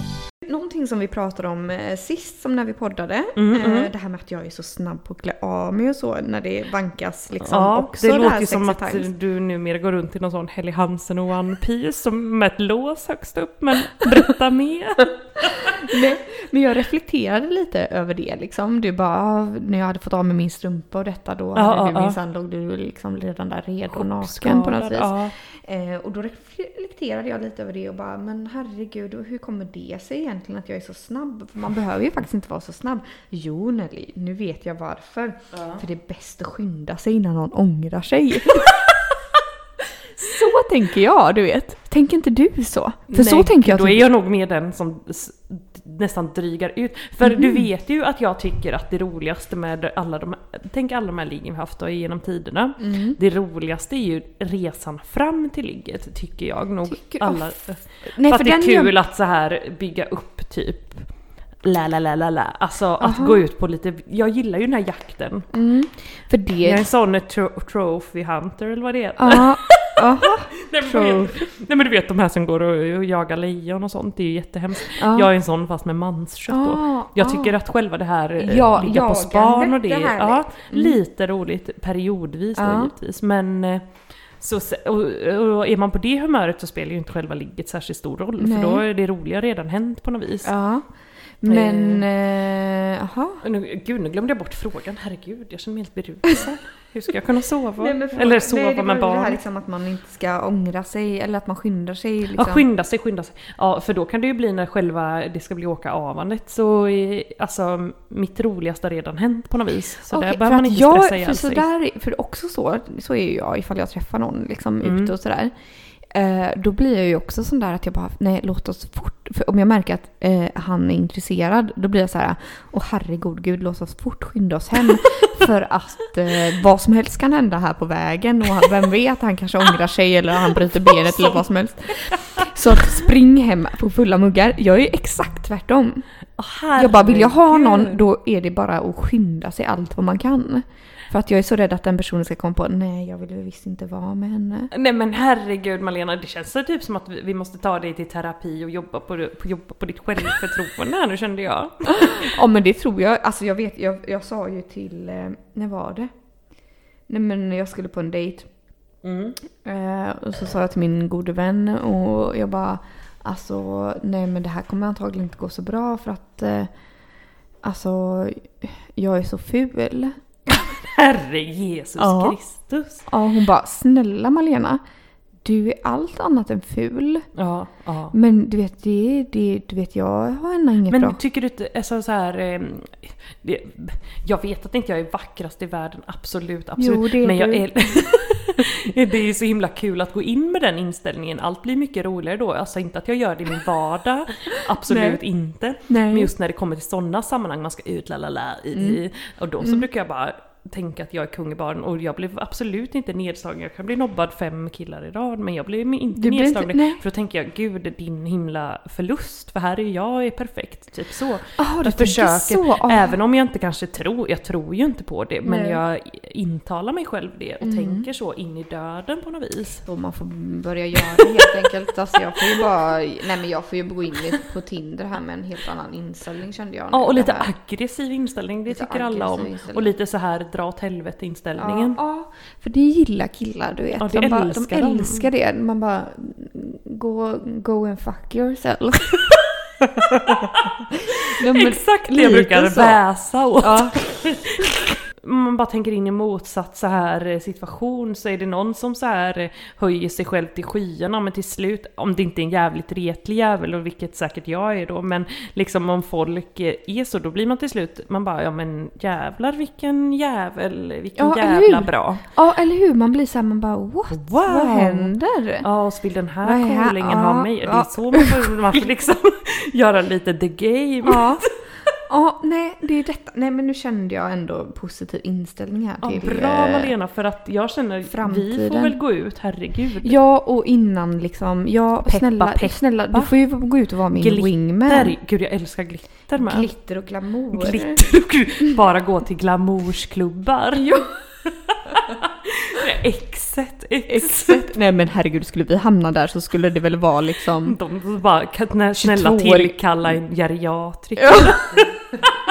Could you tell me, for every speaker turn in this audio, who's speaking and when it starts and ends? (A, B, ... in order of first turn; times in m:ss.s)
0:00.4-0:09.1 A
0:03.4-0:03.9 B
0:07.4-0:15.9 B
0:15.6-0:39.0 A
0:21.5-0:22.2 B
0:23.9-0:25.3 B
0:35.5-0:35.8 B
0:40.2-0:44.1 A
0:43.1-1:01.0 B
0:47.2-0:47.7 A
0:52.8-0:53.2 A
0:56.9-0:57.4 A
0:58.1-0:58.9 A
1:01.6-1:05.5 B
1:03.0-1:03.4 A
1:05.5-1:06.8 A
1:06.6-1:30.5 B
1:09.2-1:11.4 A
1:14.9-1:15.3 A
1:16.5-1:17.6 A
1:18.4-1:21.0 A
1:22.6-1:22.9 A
1:28.4-1:28.8 A
1:30.4-1:30.9 A
1:31.4-1:33.4 A
1:31.5-1:32.0 B
1:33.4-1:39.4 B
1:37.8-1:42.6 A
1:42.3-1:51.6 B
1:50.1-1:55.5 A
1:54.8-1:55.1 B
1:56.1-2:16.0 A
2:10.9-2:11.4 B
2:12.0-2:12.4 B
2:16.4-2:18.0 B
2:16.8-2:24.7 A
2:24.7-2:32.3 B
2:31.8-2:36.1 A
2:37.1-2:38.5 A
2:39.0-2:39.4 B
2:39.6-2:46.7 A
2:47.6-2:50.2 A
2:50.6-2:53.0 B
2:52.0-2:52.4 A
2:53.1-2:54.8 A
2:55.4-2:57.3 A
2:57.4-2:58.1 B
2:58.1-3:01.2 A
3:00.9-3:39.8 B
3:06.8-3:08.0 A
3:14.9-3:15.2 A
3:15.9-3:16.3 A
3:18.7-3:19.0 A
3:19.6-3:19.8 A
3:26.1-3:27.0 A
3:31.6-3:33.2 A
3:35.4-3:35.8 A
3:37.6-3:38.1 A
3:39.8-3:47.5 A
3:46.9-3:52.0 B
3:48.7-3:49.9 A
3:51.6-3:59.4 A
3:54.0-3:55.3 B
4:00.1-4:03.0 A
4:00.2-4:00.7 B
4:01.2-4:22.3 B
4:03.6-4:04.0 A
4:21.2-4:25.6 A
4:24.1-4:31.5 B
4:26.4-4:28.8 A
4:31.0-4:31.5 A
4:32.1-4:36.9 A
4:36.0-4:40.2 B
4:38.1-4:39.0 A
4:40.0-4:45.1 A
4:42.0-4:43.3 B
4:44.2-4:46.7 B
4:46.4-4:48.0 A
4:47.5-4:50.9 B
4:50.7-4:51.2 A
4:51.7-4:54.7 B
4:54.1-4:57.8 A
4:57.6-5:02.0 B
4:59.0-5:00.2 A
5:01.2-5:01.8 A